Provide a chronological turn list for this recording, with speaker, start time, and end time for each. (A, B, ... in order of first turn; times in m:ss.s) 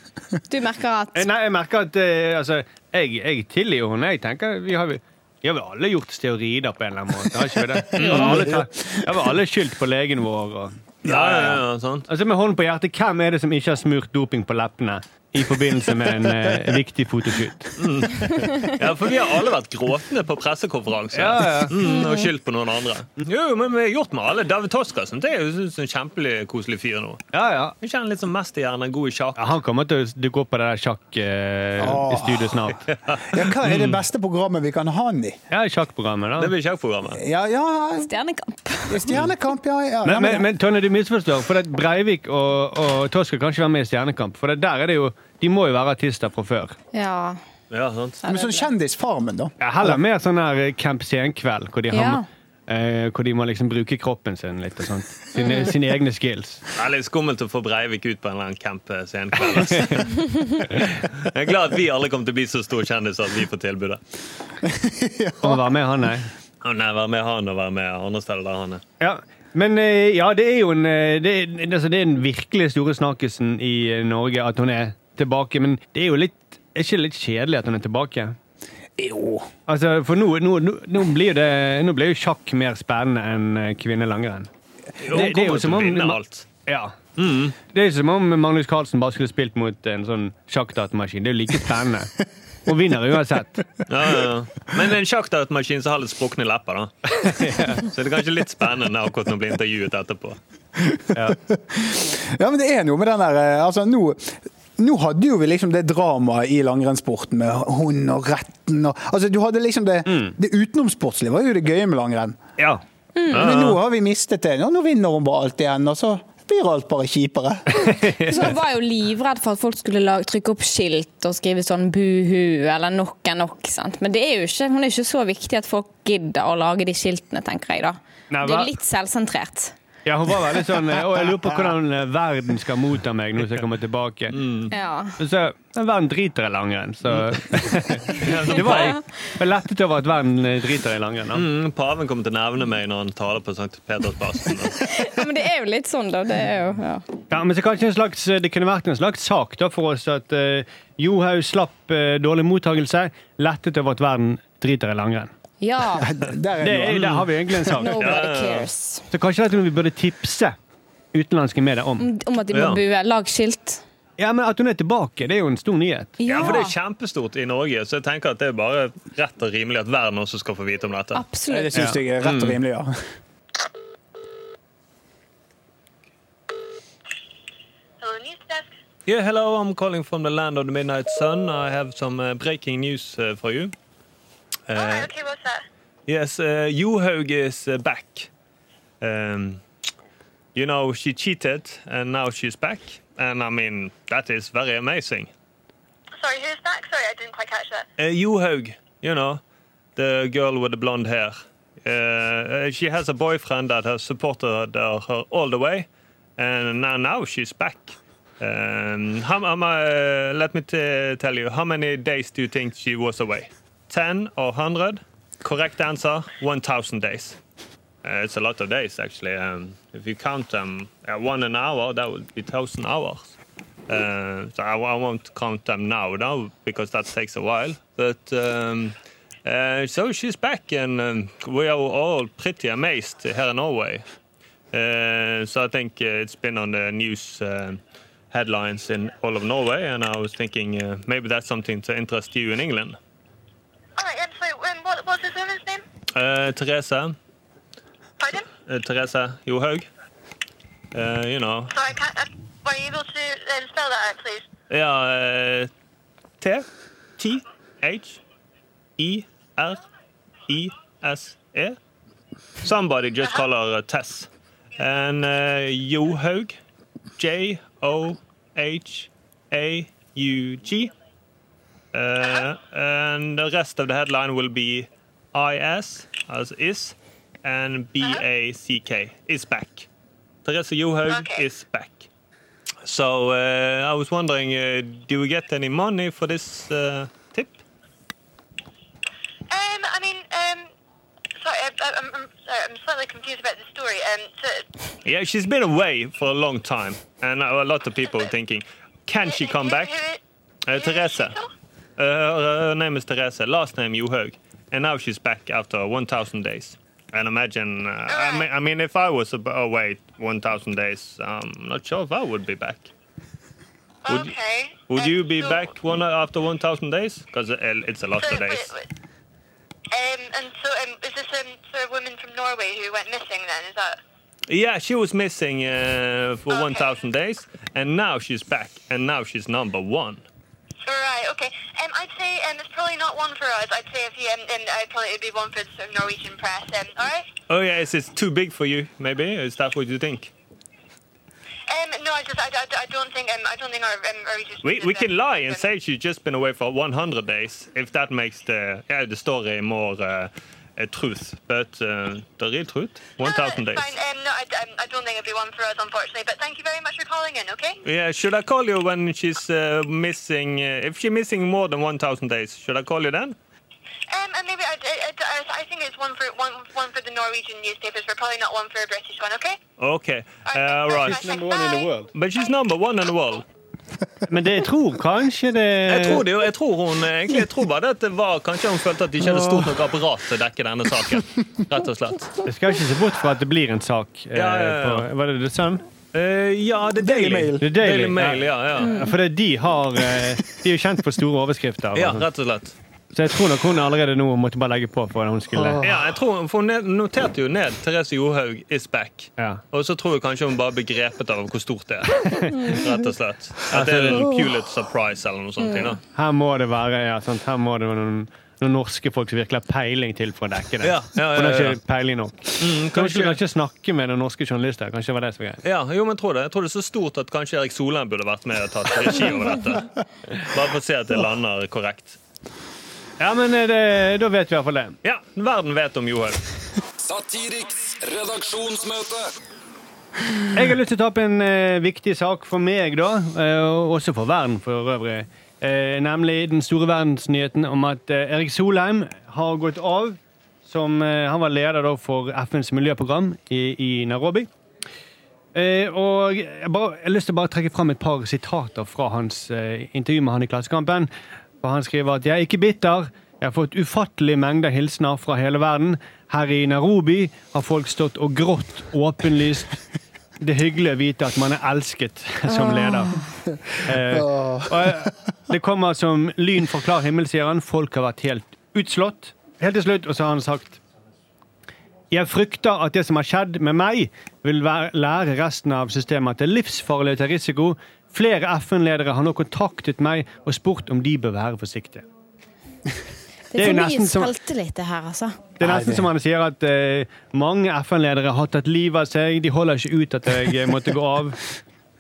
0:00.5-0:01.3 A
0:01.1-0:10.8 B
0:07.8-0:09.1 C
0:08.0-0:08.5 D
0:11.0-0:11.6 C
0:11.0-0:12.1 D
0:12.1-0:17.8 B
0:17.8-0:29.4 D
0:18.4-0:18.7 A
0:21.1-0:21.8 B
0:21.8-0:22.3 A
0:27.3-0:27.8 B
0:29.4-0:32.9 B
0:31.8-0:35.4 C
0:33.1-0:34.0 D
0:35.5-0:36.5 B
0:36.4-0:37.2 D
0:37.1-0:38.1 C
0:38.0-0:39.1 A
0:38.9-0:40.5 C
0:40.0-0:46.8 B
0:46.9-0:47.4 A
0:47.7-0:48.2 D
0:48.2-0:48.7 A
0:48.2-0:50.0 C
0:49.6-0:56.6 B
0:51.9-0:52.2 A
0:55.4-0:55.7 A
0:56.8-1:04.0 D
1:04.6-1:05.6 C
1:05.4-1:06.3 B
1:06.6-1:08.8 D
1:09.0-1:18.4 B
1:19.0-1:19.5 C
1:19.7-1:24.5 B
1:25.0-1:26.5 D
1:25.1-1:27.0 B
1:27.2-1:27.6 D
1:27.7-1:32.1 B
1:32.7-1:33.7 B
1:33.9-1:40.4 D
1:37.2-1:37.9 B
1:40.8-1:52.4 C
1:41.1-1:41.4 B
1:50.1-1:50.3 B
1:53.2-1:53.6 A
1:53.3-1:57.9 C
1:53.3-1:53.8 D
1:57.7-1:58.4 B
1:58.2-2:09.8 A
2:08.3-2:08.7 B
2:10.0-2:14.4 B
2:14.3-2:14.8 D
2:14.7-2:15.2 A
2:15.2-2:21.4 B
2:18.1-2:19.0 D
2:18.2-2:19.0 A
2:21.3-2:24.9 D
2:24.8-2:27.0 A
2:27.3-2:35.3 B
2:35.6-2:36.1 A
2:36.0-2:37.8 C
2:36.6-2:38.3 B
2:36.9-2:37.2 D
2:37.8-2:39.1 A
2:38.0-2:38.7 D
2:39.1-2:40.6 B
2:41.1-2:42.1 B
2:42.0-2:43.8 A
2:42.5-2:42.8 D
2:44.2-2:46.2 B
2:46.2-2:46.7 A
2:46.3-2:51.2 D
2:51.2-2:51.8 A
2:51.5-2:52.9 C
2:52.2-2:52.6 D
2:58.0-2:58.7 E
2:59.1-3:03.7 D
3:04.7-3:05.1 D
3:04.7-3:05.6 E
3:06.1-3:08.3 D
3:09.0-3:09.6 D
3:10.6-3:15.3 D
3:16.2-3:17.9 E
3:18.0-3:19.4 D
3:20.0-3:25.9 D
3:26.4-3:37.4 D
3:38.0-3:43.3 D
3:43.9-3:54.0 D
3:54.7-3:57.8 D
3:58.3-4:03.0 D
4:04.0-4:05.8 E
4:06.1-4:07.2 D
4:08.2-4:08.5 E
4:08.6-4:09.9 D
4:10.9-4:11.7 D
4:11.7-4:14.4 E
4:14.7-4:15.7 D
4:16.4-4:16.7 D
4:17.2-4:18.2 D
4:19.0-4:19.8 D
4:20.5-4:21.8 D
4:22.6-4:26.6 D
4:27.2-4:30.9 D
4:31.9-4:39.9 D
4:40.4-4:42.1 D
4:41.1-4:41.4 E
4:42.8-4:47.6 D
4:49.5-4:50.7 E
4:51.4-4:54.6 E
4:55.0-4:59.9 D
4:59.2-5:00.2 E
5:00.6-5:01.4 D
5:00.7-5:01.5 E
5:02.0-5:12.9 D
5:08.1-5:08.5 E
5:14.0-5:15.7 E
5:14.1-5:14.3 D
5:14.9-5:18.7 D
5:18.2-5:18.9 E
5:19.9-5:24.0 E
5:24.5-5:30.2 D
5:26.5-5:26.9 E
5:30.8-5:37.3 E
5:37.5-5:40.3 D
5:41.7-5:45.6 E
5:44.6-5:53.9 D
5:53.2-5:57.8 E
5:57.8-6:03.4 D
6:04.1-6:09.6 E
6:09.8-6:11.2 D
6:10.5-6:12.5 E
6:11.0-6:12.1 B
6:12.1-6:13.4 D
6:14.3-6:16.2 B
6:15.9-6:22.4 D
6:19.3-6:19.6 C
6:22.4-6:25.8 B
6:24.3-6:25.1 D
6:26.1-6:29.0 D
6:27.0-6:27.7 C
6:27.6-6:32.3 B
6:32.0-6:32.8 D
6:33.1-6:35.8 B
6:35.5-6:36.0 C
6:35.8-6:46.0 D
6:43.7-6:44.3 B
6:46.1-6:55.6 B
6:50.8-6:51.8 D
6:52.6-6:53.4 D
6:55.6-7:02.2 D
7:03.2-7:05.0 B
7:05.0-7:06.4 D
7:07.0-7:09.3 F
7:10.5-7:24.5 B
7:25.6-7:31.1 B
7:31.6-7:39.8 B
7:40.4-7:43.2 B
7:42.5-7:43.3 A
7:43.8-7:50.8 B
7:44.0-7:45.1 C
7:52.1-8:02.0 B
8:03.5-8:05.5 A
8:03.6-8:04.3 B
8:05.6-8:11.4 B
8:05.6-8:06.1 C